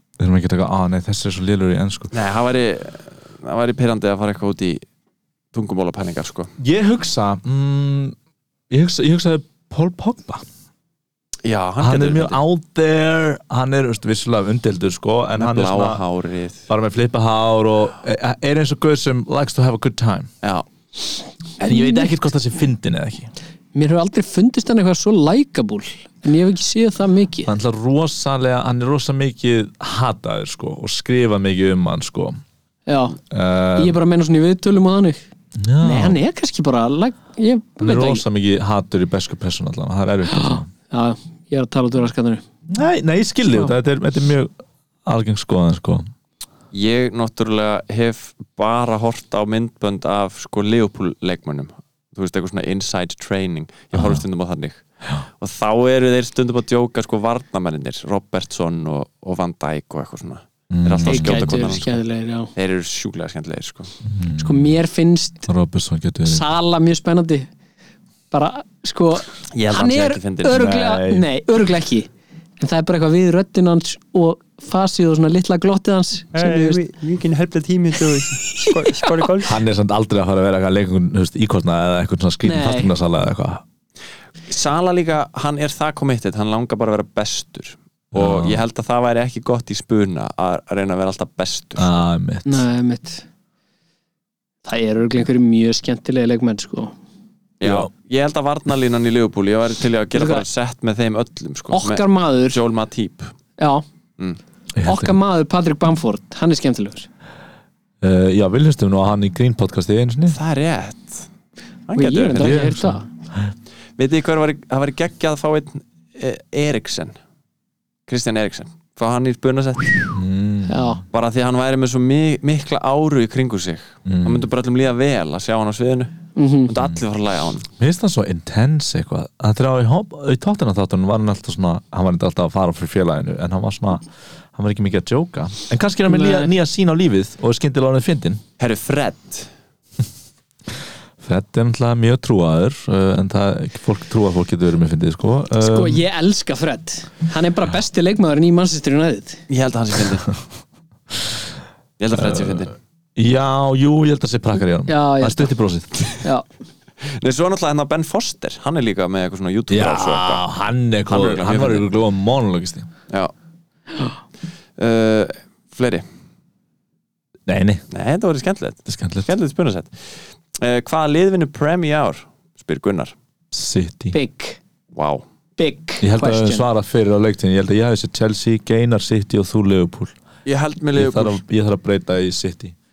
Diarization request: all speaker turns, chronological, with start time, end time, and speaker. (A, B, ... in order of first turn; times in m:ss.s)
0:00.2-0:02.1 A
0:02.1-0:04.8 B
0:05.5-0:06.5 B
0:06.6-0:08.2 A
0:08.7-0:10.4 A
0:11.4-0:12.4 B
0:11.8-0:16.0 A
0:15.4-0:16.7 B
0:16.7-0:20.3 A
0:20.4-0:20.7 B
0:21.6-0:23.3 A
0:23.7-0:27.5 C
0:27.4-0:32.4 A
0:32.9-0:33.2 C
0:33.3-0:34.0 A
0:33.8-0:35.2 C
0:35.6-0:36.2 A
0:35.8-0:38.2 C
0:37.8-0:40.7 A
0:40.3-0:42.4 C
0:42.7-0:44.5 A
0:45.0-0:46.0 A
0:46.7-0:54.8 B
0:53.9-0:54.2 A
0:55.4-1:02.0 B
1:00.7-1:01.8 A
1:01.0-1:02.5 C
1:02.6-1:03.9 B
1:04.0-1:04.7 A
1:04.4-1:05.5 C
1:05.5-1:06.4 A
1:06.2-1:07.5 C
1:08.3-1:16.8 C
1:09.5-1:10.7 B
1:10.5-1:11.3 A
1:16.3-1:19.6 B
1:18.5-1:19.2 C
1:19.4-1:23.6 A
1:22.4-1:22.9 C
1:24.5-1:31.9 B
1:28.1-1:28.6 A
1:31.8-1:32.7 A
1:32.4-1:33.2 C
1:34.6-1:36.9 C
1:37.6-1:43.3 B
1:37.6-1:37.9 A
1:40.1-1:40.4 C
1:41.7-1:42.6 C
1:43.6-1:43.8 C
1:44.8-1:45.2 A
1:44.9-1:47.1 C
1:48.0-1:50.4 A
1:50.3-1:51.3 B
1:51.9-1:52.6 B
1:52.0-1:53.0 C
1:52.4-1:53.5 A
1:54.0-1:57.2 B
1:58.1-2:00.2 B
2:00.1-2:01.0 A
2:00.7-2:01.0 C
2:01.1-2:07.7 B
2:04.0-2:04.5 A
2:06.4-2:06.7 C
2:07.8-2:18.4 A
2:16.1-2:16.5 C
2:18.6-2:19.5 B
2:21.2-2:26.0 A
2:25.6-2:29.4 C
2:29.5-2:30.3 B
2:32.0-2:32.8 B
2:32.1-2:35.9 A
2:34.9-2:35.5 C
2:37.0-2:40.4 B
2:39.7-2:42.9 A
2:41.1-2:41.9 B
2:44.8-2:46.0 B
2:47.4-2:47.8 A
2:47.9-2:53.1 B
2:48.9-2:49.3 A
2:53.5-2:54.2 A
2:54.1-2:54.6 C
2:54.9-2:55.2 B
2:55.6-2:56.7 C
2:56.0-3:00.1 A
3:00.4-3:01.4 B
3:01.0-3:02.7 A